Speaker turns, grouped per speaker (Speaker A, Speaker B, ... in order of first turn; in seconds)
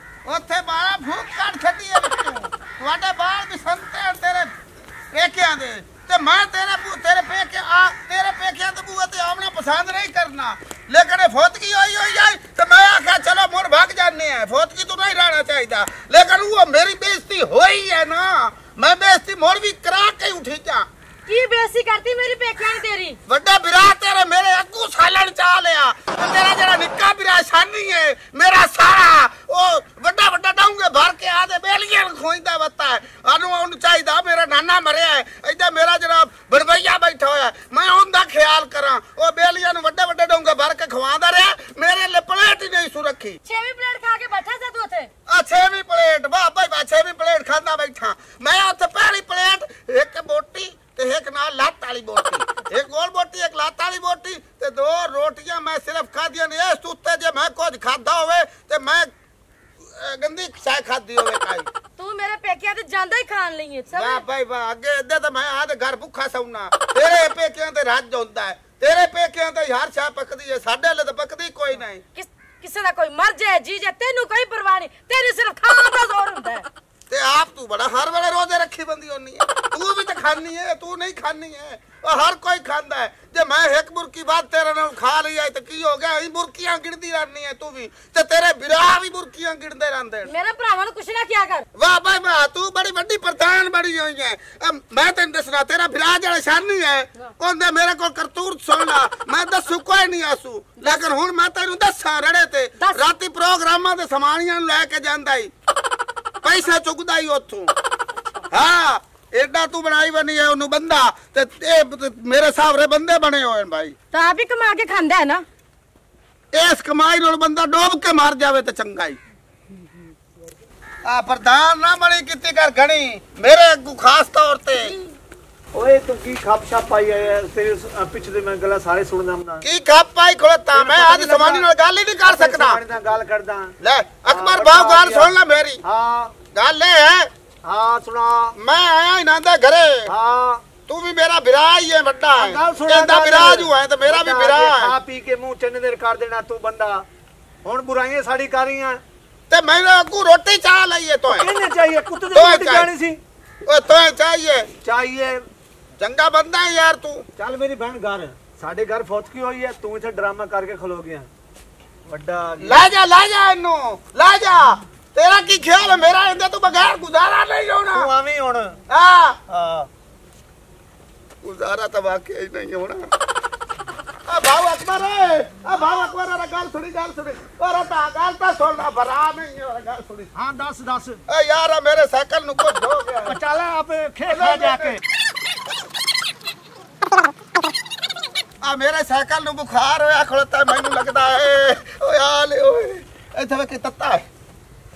Speaker A: 0.2-4.5, 5.1-20.9, 23.3-43.4, 45.3-59.1, 59.8-61.7, 63.9-72.0, 77.1-90.3, 91.7-105.5, 106.4-107.7, 108.5-113.9, 116.5-119.2, 121.0-125.0, 129.6-132.8, 133.8-135.8, 136.5-137.3, 138.6-140.1, 140.9-144.9, 149.5-151.5, 152.3-152.9, 153.7-154.7, 156.0-157.2, 162.6-168.1, 168.9-169.4, 171.4-173.1, 174.3-180.3, 181.3-183.4, 184.3-185.0, 188.6-194.2
Speaker B: 21.3-23.2, 43.4-45.1, 62.0-64.2, 72.1-76.7, 90.3-91.7, 102.8-103.1, 114.1-115.4
Speaker C: 125.7-129.7, 130.7-131.7, 132.2-133.7, 134.2-135.3, 135.8-136.3, 137.6-138.5, 140.1-140.6, 142.3-147.1, 147.6-149.0, 151.3-153.2, 154.8-155.4, 157.4-161.3, 162.1-162.8, 167.9-168.8, 169.5-169.9, 180.3-181.2, 183.2-185.0